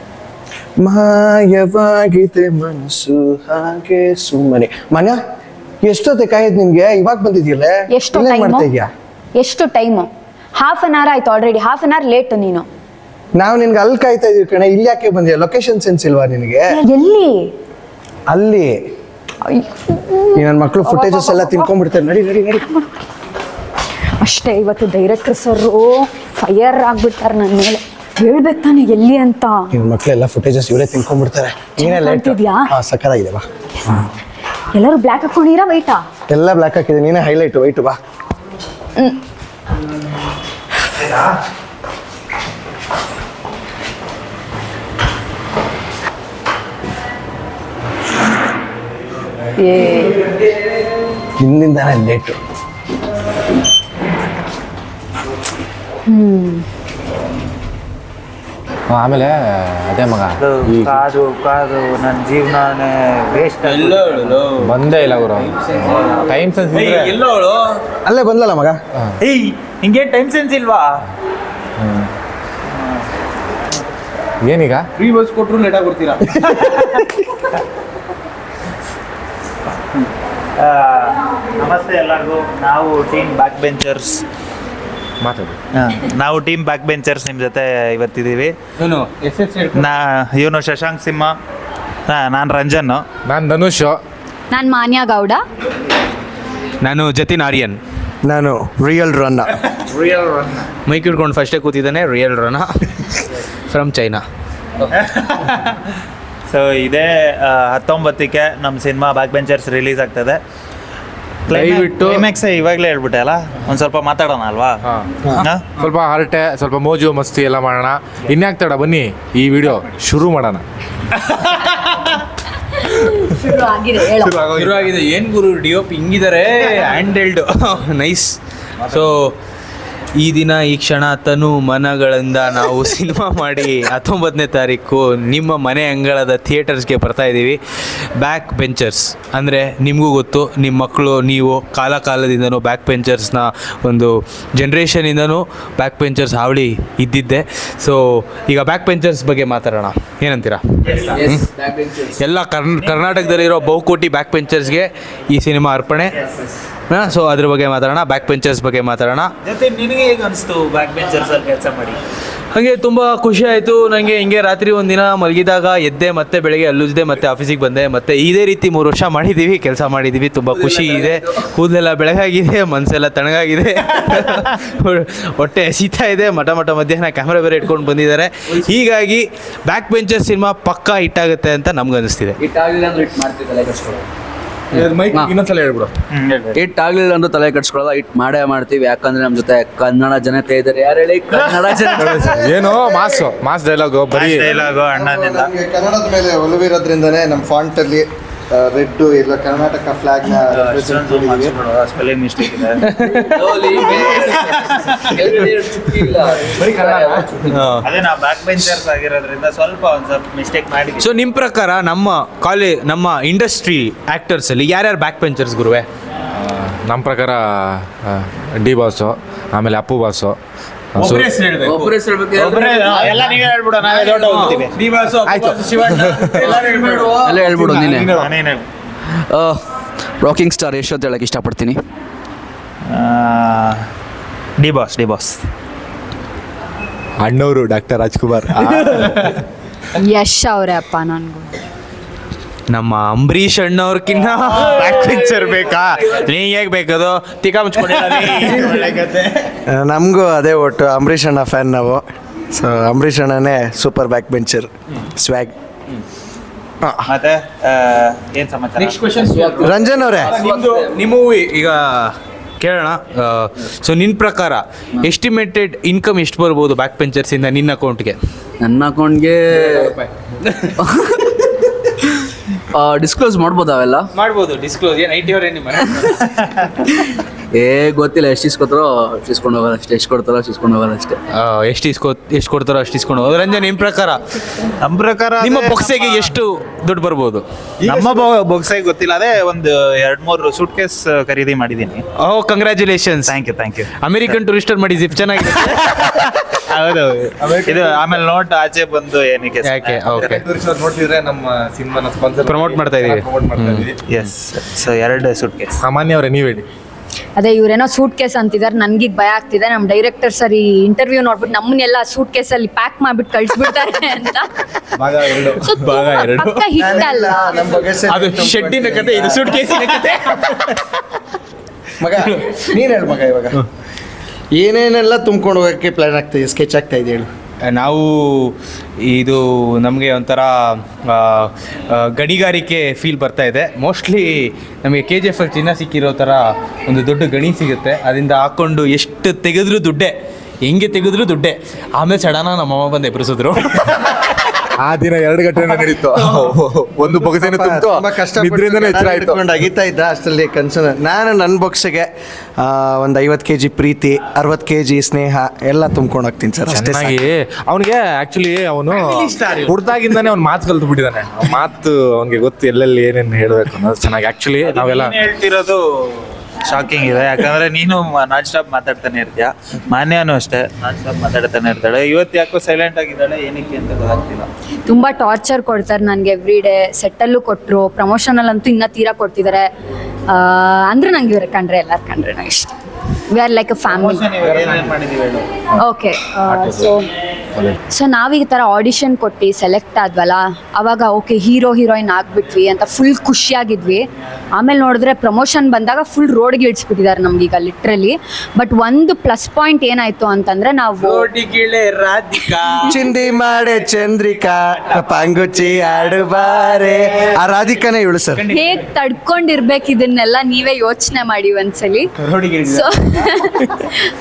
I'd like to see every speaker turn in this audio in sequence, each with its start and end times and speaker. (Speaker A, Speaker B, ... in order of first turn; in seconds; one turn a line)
Speaker A: 0.8-5.2
Speaker A: 5.8-8.9
Speaker B: 7.9-8.7
Speaker B: 9.3-12.7
Speaker A: 13.4-16.8
Speaker B: 16.7-17.5
Speaker A: 18.3-18.8
Speaker B: 19.4-21.7
Speaker A: 20.4-22.6
Speaker B: 22.6-23.0
Speaker B: 24.2-29.7
Speaker A: 29.7-33.5
Speaker B: 31.8-32.7
Speaker B: 34.7-36.0
Speaker A: 36.3-38.0
Speaker C: 41.0-41.3
Speaker B: 49.6-50.2
Speaker A: 51.4-52.4
Speaker B: 56.1-56.6
Speaker D: 58.9-61.0
Speaker C: 60.4-64.5
Speaker E: 63.6-67.8
Speaker D: 64.6-65.5
Speaker C: 65.8-66.4
Speaker D: 66.2-67.1
Speaker A: 68.0-68.8
Speaker C: 69.2-71.0
Speaker C: 72.7-73.1
Speaker D: 74.4-74.9
Speaker E: 75.0-76.3
Speaker C: 76.6-76.9
Speaker C: 80.6-84.2
Speaker D: 85.2-85.6
Speaker C: 85.7-88.5
Speaker E: 88.8-89.9
Speaker C: 89.7-91.3
Speaker C: 92.1-93.0
Speaker D: 93.3-94.0
Speaker B: 94.5-95.4
Speaker E: 96.8-97.8
Speaker A: 98.2-99.6
Speaker C: 99.9-100.5
Speaker D: 100.1-100.5
Speaker E: 100.9-104.2
Speaker C: 104.9-105.8
Speaker C: 106.5-110.4
Speaker C: 111.5-114.8
Speaker D: 111.5-112.3
Speaker D: 114.8-120.6
Speaker C: 115.3-115.7
Speaker B: 122.8-124.4
Speaker D: 124.1-125.0
Speaker E: 124.6-128.4
Speaker E: 128.9-129.3
Speaker E: 130.2-137.6
Speaker E: 138.2-151.5
Speaker C: 150.8-151.4
Speaker F: 151.1-152.2
Speaker E: 152.2-156.2
Speaker C: 152.8-153.3
Speaker C: 156.1-156.6
Speaker E: 156.9-159.3
Speaker C: 159.4-162.0
Speaker E: 162.5-182.4
Speaker F: 170.5-171.5
Speaker F: 182.4-184.1
Speaker D: 184.7-185.9
Speaker F: 184.8-185.3
Speaker C: 186.1-186.6
Speaker F: 186.6-192.3
Speaker D: 191.9-194.5
Speaker A: 192.3-193.2
Speaker C: 194.1-195.5
Speaker A: 194.9-201.6
Speaker C: 200.5-202.9
Speaker E: 202.8-203.4
Speaker F: 203.1-207.3
Speaker C: 203.8-205.4
Speaker D: 206.3-207.7
Speaker E: 207.5-207.9
Speaker C: 207.8-211.1
Speaker E: 211.0-215.9
Speaker D: 216.3-220.4
Speaker D: 220.9-221.3
Speaker E: 221.0-222.0
Speaker F: 221.6-223.1
Speaker C: 222.3-224.7
Speaker E: 222.7-228.2
Speaker D: 225.2-226.6
Speaker F: 226.9-228.1
Speaker D: 227.4-228.3
Speaker C: 228.1-228.7
Speaker F: 229.1-229.7
Speaker F: 230.2-231.8
Speaker C: 232.9-233.8
Speaker C: 234.6-235.4
Speaker E: 237.2-239.4
Speaker B: 240.0-241.5
Speaker E: 242.7-249.5
Speaker A: 249.7-255.5
Speaker A: 256.8-257.1
Speaker C: 257.1-259.1
Speaker E: 258.8-268.2
Speaker F: 259.3-260.9
Speaker A: 259.6-260.4
Speaker F: 268.6-270.0
Speaker E: 269.5-270.7
Speaker F: 270.8-271.3
Speaker F: 272.7-274.1
Speaker E: 274.1-276.2
Speaker C: 276.3-276.7
Speaker F: 277.5-281.2
Speaker E: 281.3-284.2
Speaker C: 284.8-286.3
Speaker E: 285.4-287.4
Speaker D: 287.8-288.1
Speaker C: 287.8-292.0
Speaker E: 292.2-293.4
Speaker C: 293.3-294.4
Speaker E: 294.0-296.0
Speaker C: 295.7-300.4
Speaker D: 297.4-298.2
Speaker E: 299.6-300.4
Speaker D: 300.2-304.0
Speaker E: 302.4-303.9
Speaker C: 304.1-305.7
Speaker D: 305.8-306.7
Speaker B: 307.4-314.5
Speaker E: 315.0-316.6
Speaker B: 315.5-317.9
Speaker A: 316.8-319.7
Speaker E: 318.1-320.9
Speaker A: 322.0-323.6
Speaker E: 322.2-322.7
Speaker A: 324.6-327.3
Speaker E: 327.6-344.5
Speaker D: 344.8-349.4
Speaker E: 346.1-346.6
Speaker A: 347.0-357.2
Speaker D: 356.7-365.1
Speaker E: 358.9-359.8
Speaker C: 364.6-374.5
Speaker B: 374.9-379.7
Speaker B: 380.3-382.7
Speaker B: 383.3-384.3
Speaker C: 383.9-385.5
Speaker B: 385.8-387.1
Speaker D: 386.5-386.9
Speaker B: 387.9-401.3
Speaker E: 401.0-403.1
Speaker A: 402.9-408.4
Speaker E: 408.4-408.8
Speaker B: 408.5-412.1
Speaker E: 412.2-413.7
Speaker B: 412.7-413.9